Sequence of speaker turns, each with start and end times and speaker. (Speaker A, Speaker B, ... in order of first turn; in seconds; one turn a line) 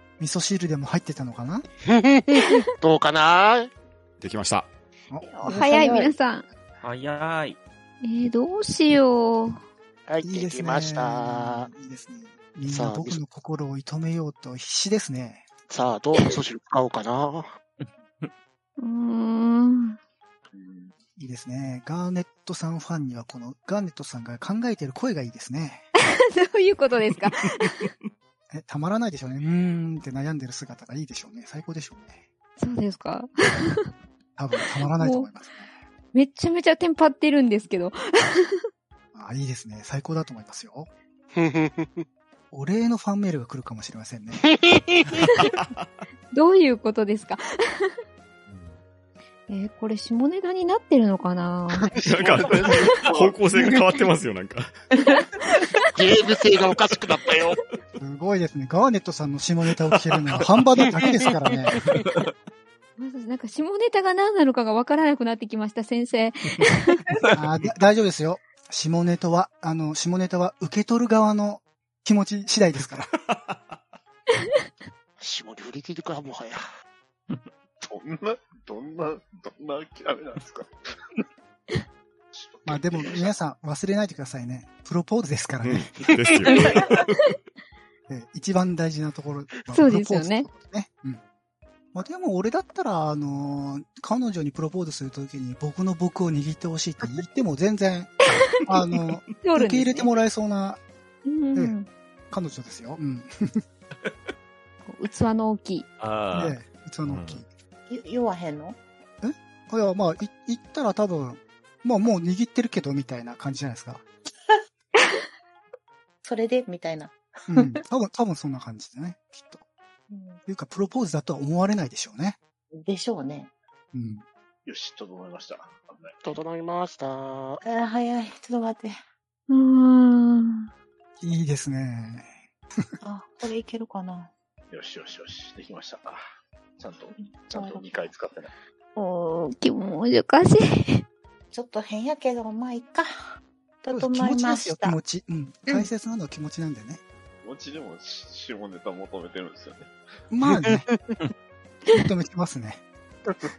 Speaker A: 0.2-1.6
Speaker B: 1.9-3.7
Speaker C: 4.2-4.7
Speaker A: 5.1-5.7
Speaker D: 5.3-6.5
Speaker E: 5.5-6.1
Speaker F: 6.8-7.6
Speaker D: 8.0-9.6
Speaker B: 10.1-11.7
Speaker A: 10.2-15.5
Speaker B: 12.7-13.2
Speaker B: 15.7-17.5
Speaker D: 18.8-20.0
Speaker G: 20.5-20.9
Speaker A: 21.2-25.8
Speaker D: 26.0-27.9
Speaker A: 28.5-32.2
Speaker D: 32.6-33.9
Speaker A: 34.4-35.7
Speaker D: 35.0-35.3
Speaker D: 36.1-38.6
Speaker A: 39.1-40.9
Speaker B: 41.4-42.0
Speaker A: 42.5-44.5
Speaker B: 44.4-45.4
Speaker C: 45.5-45.9
Speaker D: 46.3-47.9
Speaker D: 49.5-51.9
Speaker C: 52.0-54.8
Speaker G: 52.0-53.4
Speaker D: 55.4-55.8
Speaker B: 55.9-57.6
Speaker A: 58.0-61.8
Speaker D: 63.0-67.0
Speaker A: 67.3-73.1
Speaker C: 73.3-73.7
Speaker B: 75.2-76.6
Speaker G: 77.8-81.2
Speaker G: 82.3-83.3
Speaker A: 82.6-85.9
Speaker C: 85.6-87.1
Speaker A: 88.1-91.2
Speaker D: 89.7-90.5
Speaker A: 91.9-98.1
Speaker D: 98.2-98.8
Speaker A: 98.7-100.8
Speaker D: 99.4-100.1
Speaker D: 101.2-101.9
Speaker A: 102.3-103.6
Speaker D: 104.8-105.9
Speaker F: 106.0-107.4
Speaker A: 106.3-107.5
Speaker E: 107.9-108.8
Speaker A: 109.2-114.0
Speaker E: 116.2-117.8
Speaker A: 117.5-119.6
Speaker E: 120.1-120.4
Speaker A: 120.5-122.4
Speaker E: 122.7-123.5
Speaker A: 123.9-124.2
Speaker G: 124.7-126.3
Speaker B: 126.2-127.6
Speaker E: 127.6-128.9
Speaker D: 129.5-130.7
Speaker A: 131.2-132.3
Speaker E: 133.0-134.3
Speaker G: 134.7-136.2
Speaker G: 136.8-138.5
Speaker E: 137.4-137.8
Speaker D: 138.9-141.0
Speaker E: 141.5-143.1
Speaker E: 143.8-145.0
Speaker A: 143.9-147.0
Speaker G: 147.4-149.9
Speaker A: 150.3-150.8
Speaker A: 151.9-152.8